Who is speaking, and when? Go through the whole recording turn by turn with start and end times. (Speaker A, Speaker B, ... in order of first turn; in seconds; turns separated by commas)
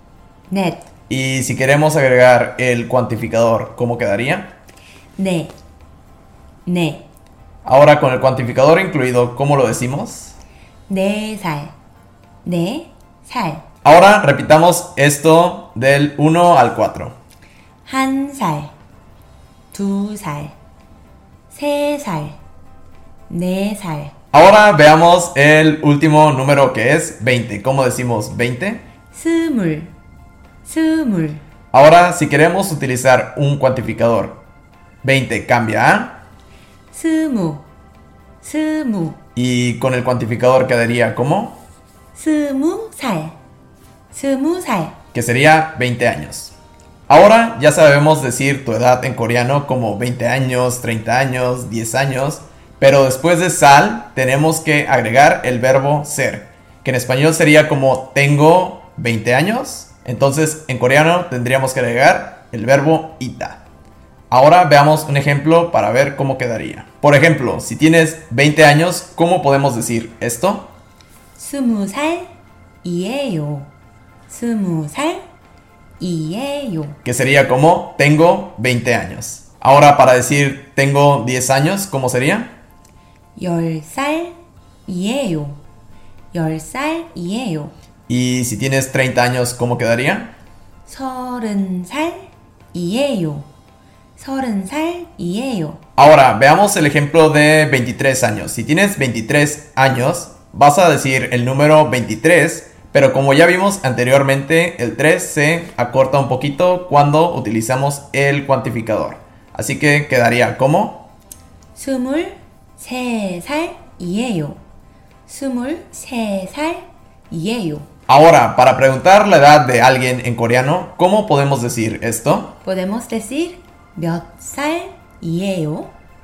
Speaker A: 0.5-0.8, Speaker B: 1.1-4.5, Speaker A: 5.2-5.5, Speaker A: 6.7-7.0, Speaker B: 7.6-10.3, Speaker A: 10.9-11.7, Speaker A: 12.4-13.6, Speaker B: 13.8-17.1, Speaker A: 17.9-18.7, Speaker A: 19.7-20.5, Speaker A: 21.5-22.4, Speaker A: 23.3-24.1, Speaker B: 24.3-28.8, Speaker A: 29.1-29.9, Speaker A: 30.6-31.4, Speaker B: 31.7-34.4, Speaker B: 35.0-36.2, Speaker A: 36.9-37.6, Speaker A: 38.4-39.2, Speaker B: 39.3-41.6, Speaker A: 42.1-43.3, Speaker A: 44.1-44.9, Speaker B: 45.1-46.5, Speaker B: 47.1-63.6, Speaker B: 64.3-70.7, Speaker A: 71.3-72.3, Speaker A: 72.8-73.7, Speaker A: 74.3-75.2, Speaker A: 76.0-77.0, Speaker B: 77.0-82.5, Speaker A: 83.3-85.6, Speaker A: 86.3-87.7, Speaker B: 88.1-90.3, Speaker A: 90.8-93.5, Speaker A: 94.2-95.8, Speaker B: 96.0-111.1, Speaker A: 111.7-114.6, Speaker A: 115.3-117.9, Speaker B: 118.1-122.6, Speaker A: 122.6-125.9